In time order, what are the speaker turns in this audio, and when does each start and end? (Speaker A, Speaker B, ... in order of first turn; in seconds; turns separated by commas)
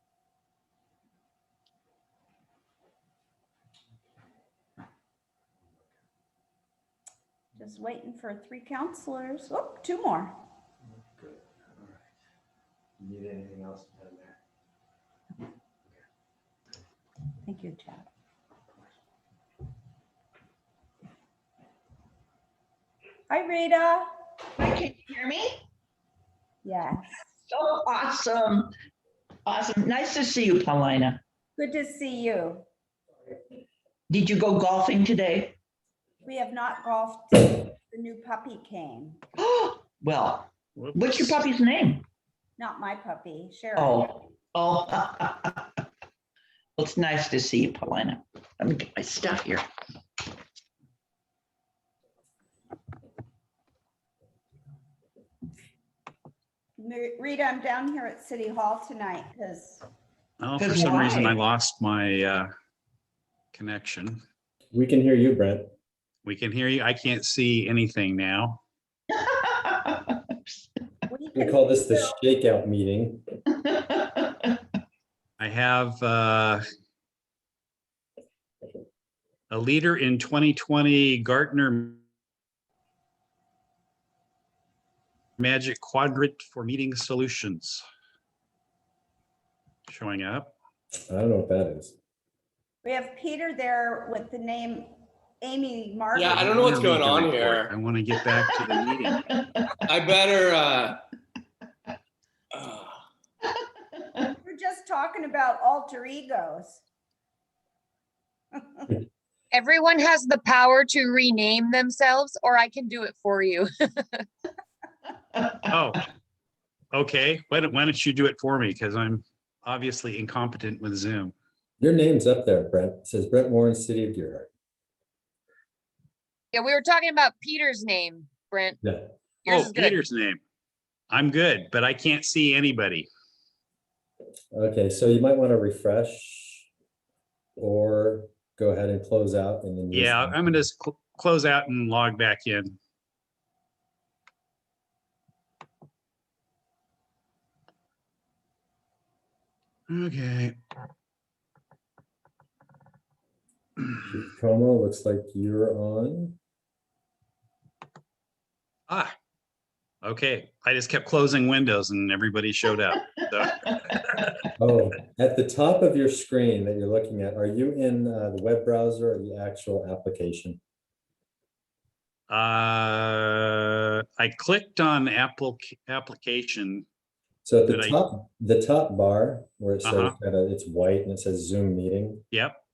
Speaker A: 7.6-10.3, Speaker B: 11.1-12.0, Speaker B: 13.0-14.4, Speaker A: 17.4-18.1, Speaker A: 23.3-24.1, Speaker C: 24.6-25.6, Speaker A: 26.6-27.1, Speaker C: 27.5-28.7, Speaker C: 29.5-31.2, Speaker A: 31.6-32.6, Speaker C: 34.1-35.6, Speaker A: 36.2-39.2, Speaker C: 39.4-42.1, Speaker D: 40.8-41.4, Speaker A: 42.6-44.2, Speaker C: 43.8-45.8, Speaker C: 46.8-49.7, Speaker A: 56.8-59.9, Speaker D: 60.4-62.5, Speaker C: 60.6-61.4, Speaker D: 63.5-64.2, Speaker B: 64.7-65.7, Speaker D: 66.2-68.6, Speaker C: 69.1-70.4, Speaker A: 71.1-72.2, Speaker B: 71.4-73.2, Speaker C: 73.7-74.5, Speaker D: 75.4-76.6, Speaker D: 79.5-82.0, Speaker D: 85.4-87.8, Speaker D: 89.9-90.5, Speaker B: 91.1-91.9, Speaker A: 92.8-96.6, Speaker E: 96.1-97.7, Speaker D: 96.3-99.2, Speaker C: 98.3-99.8, Speaker E: 99.9-101.0, Speaker E: 102.5-103.0, Speaker A: 104.4-106.8, Speaker A: 108.6-108.9, Speaker F: 109.5-114.3, Speaker D: 115.7-116.0, Speaker D: 116.9-121.3, Speaker B: 121.8-124.5, Speaker F: 126.5-128.8, Speaker F: 129.4-130.0, Speaker D: 129.5-130.4, Speaker D: 131.1-133.1, Speaker B: 134.5-136.7, Speaker B: 137.6-140.5, Speaker D: 139.9-142.8, Speaker D: 149.9-150.6, Speaker B: 153.9-156.4, Speaker D: 158.9-159.1, Speaker D: 160.0-164.3, Speaker B: 164.6-170.6, Speaker D: 172.3-176.8, Speaker B: 177.4-182.2, Speaker D: 177.7-178.0, Speaker D: 179.8-180.2, Speaker D: 182.3-182.6